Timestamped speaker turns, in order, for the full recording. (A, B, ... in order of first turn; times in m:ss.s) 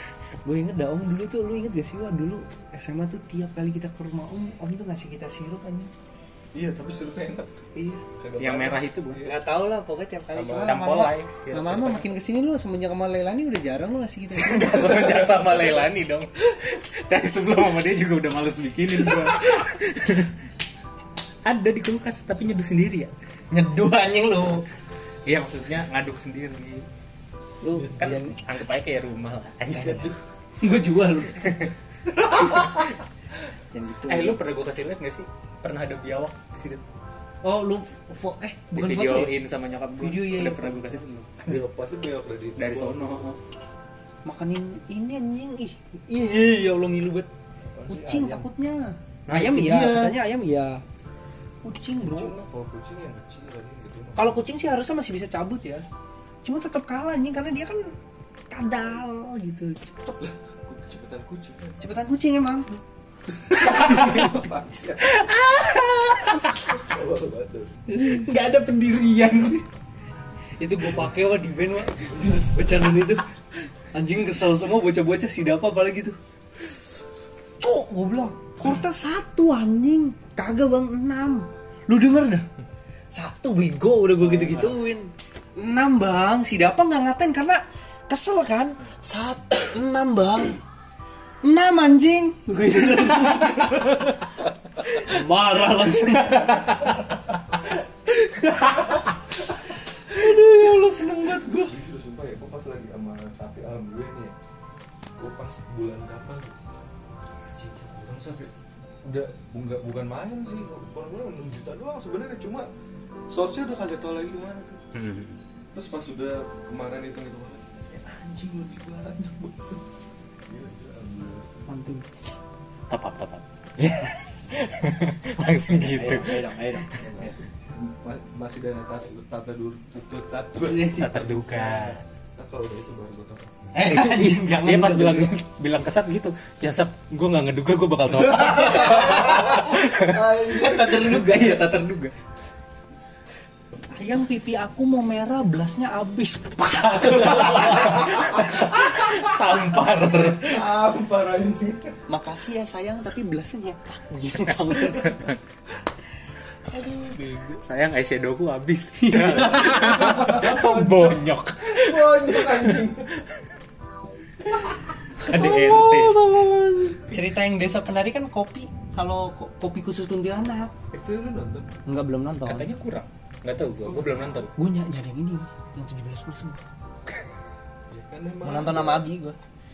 0:00.4-0:05.9 A
0:06.5-0:09.4 B
0:07.8-0:08.0 A
0:08.4-0:09.2 C
0:09.2-0:15.7 A
0:10.3-0:10.8 B
0:10.6-0:12.1 C
0:14.3-0:20.3 C
0:21.4-0:23.1 C
0:23.5-0:24.6 A
0:25.3-0:26.9 C
0:27.6-0:28.4 A
0:28.0-0:30.1 C
0:29.7-0:31.7 A
0:31.4-0:31.7 C
0:32.1-0:32.8 B
0:32.5-0:32.9 C
0:33.7-0:34.4 A
0:34.1-0:36.8 C
0:37.4-0:39.3 A
0:38.7-0:41.6 C
0:40.0-0:41.3 A
0:41.4-0:43.2 B
0:42.6-0:43.4 C
0:44.2-0:47.3 A
0:47.6-0:48.5 B
0:47.9-0:50.8 A
0:49.3-0:50.2 C
0:51.6-0:52.3 A
0:52.0-0:54.4 B
0:54.2-0:55.9 A
0:56.4-0:57.9 A
0:58.5-1:00.2 A
1:00.2-1:01.8 B
1:01.8-1:02.8 A
1:03.5-1:05.2 B
1:03.5-1:04.3 C
1:03.5-1:04.4 A
1:05.0-1:06.7 C
1:06.7-1:07.8 B
1:07.9-1:08.3 A
1:08.0-1:09.6 C
1:10.6-1:13.2 A
1:12.0-1:12.8 B
1:13.9-1:16.2 A
1:17.6-1:22.5 A
1:23.1-1:30.6 A
1:24.2-1:24.8 C
1:31.4-1:34.2 A
1:33.3-1:33.8 C
1:34.8-1:37.1 A
1:36.0-1:36.9 C
1:38.2-1:39.1 A
1:40.1-1:41.8 A
1:40.2-1:40.5 B
1:41.3-1:44.4 B
1:45.2-1:46.8 B
1:47.6-1:48.5 B
1:49.0-1:52.7 B
1:53.3-1:54.8 B
1:54.9-1:55.4 C
1:55.7-1:59.9 B
2:00.5-2:01.5 B
2:01.7-2:02.2 A
2:02.9-2:06.5 C
2:05.7-2:07.4 A
2:07.0-2:13.7 B
2:10.6-2:11.3 A
2:11.0-2:12.0 C
2:13.7-2:15.4 A
2:13.8-2:22.1 C
2:18.1-2:21.2 B
2:18.7-2:19.7 A
2:20.4-2:21.7 A
2:23.9-2:28.4 A
2:27.1-2:30.6 C
2:27.4-2:29.4 B
2:30.1-2:31.9 B
2:32.1-2:35.3 A
2:34.6-2:35.4 C
2:36.7-2:37.6 A
2:37.6-2:42.9 C
2:39.0-2:40.4 A
2:39.3-2:43.2 B
2:44.7-2:50.7 A
2:45.2-2:46.4 C
2:50.9-2:51.7 B
2:51.9-2:52.7 A
2:52.4-2:54.5 C
2:53.8-2:54.5 B
2:54.6-2:56.6 A
2:57.9-2:59.1 B
2:58.4-2:59.4 A